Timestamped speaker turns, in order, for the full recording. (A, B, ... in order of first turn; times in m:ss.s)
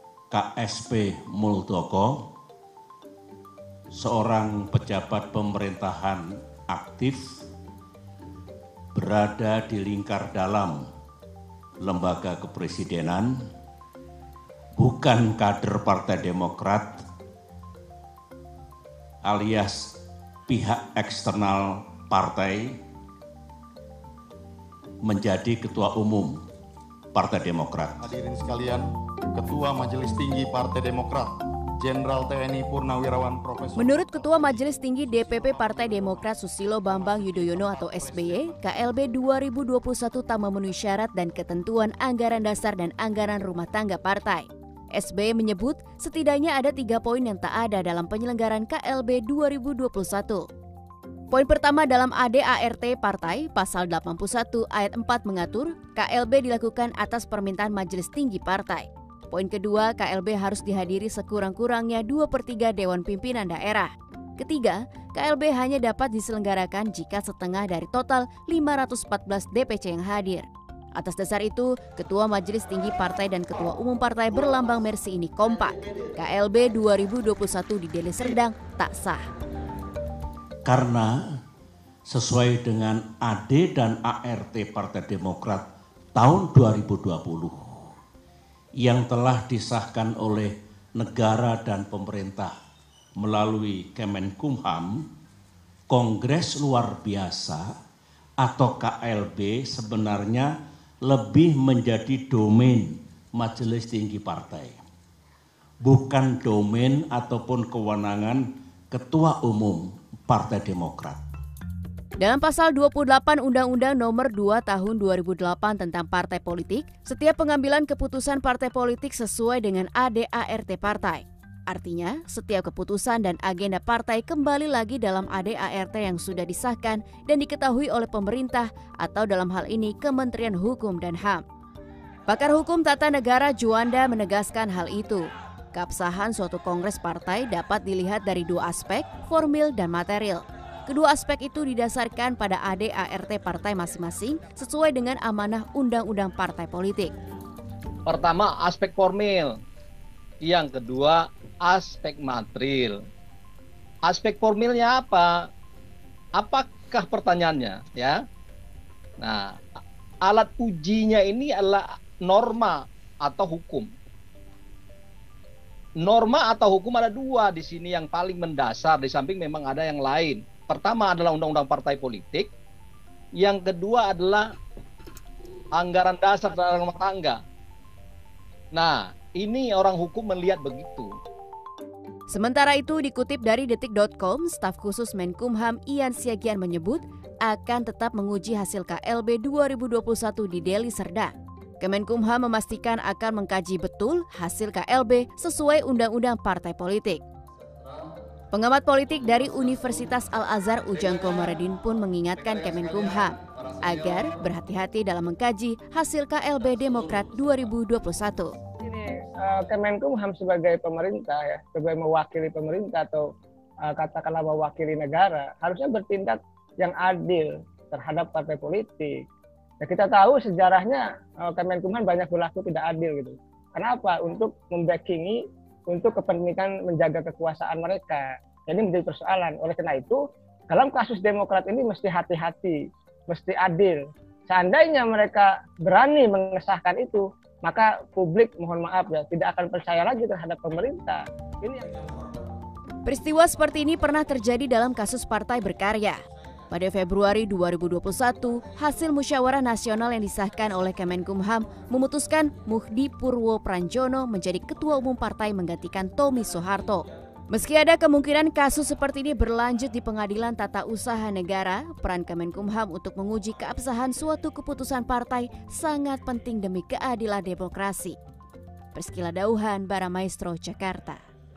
0:00.3-0:02.2 A
0:03.9-0:07.2 A
0:08.9-0:10.8 A
0:11.8-0:13.3 A
0:14.8-0:17.0 A
0:19.2-0:19.9 A
0:20.5-0:22.8 A
0:25.0-0:26.3 A
0:27.1-0:28.1 A
0:28.0-0:34.6 B
0:33.8-0:50.4 C
0:35.4-0:36.3 B
0:36.9-0:38.6 B
0:51.3-1:19.2 C
1:20.6-1:21.1 A
1:22.0-1:27.9 A
1:28.8-1:32.5 A
1:33.2-1:35.0 A
1:35.9-1:37.6 A
1:38.4-1:40.5 A
1:41.0-1:44.8 A
1:45.8-1:51.2 A
1:52.2-2:11.4 C
2:12.3-2:27.1 C
2:28.1-2:29.5 D
2:30.4-2:33.0 D
2:34.0-2:35.3 D
2:36.4-2:38.2 D
2:39.2-2:39.5 D
2:40.2-2:43.9 D
2:46.0-2:52.5 D
2:53.4-2:54.5 D
2:55.7-2:57.4 D
2:58.7-3:01.1 D
3:02.3-3:17.2 C
3:18.5-3:28.5 C
3:28.8-3:33.3 E
3:33.8-3:39.2 E
3:39.8-4:01.9 E
4:03.0-4:28.2 C
4:28.9-4:31.2 C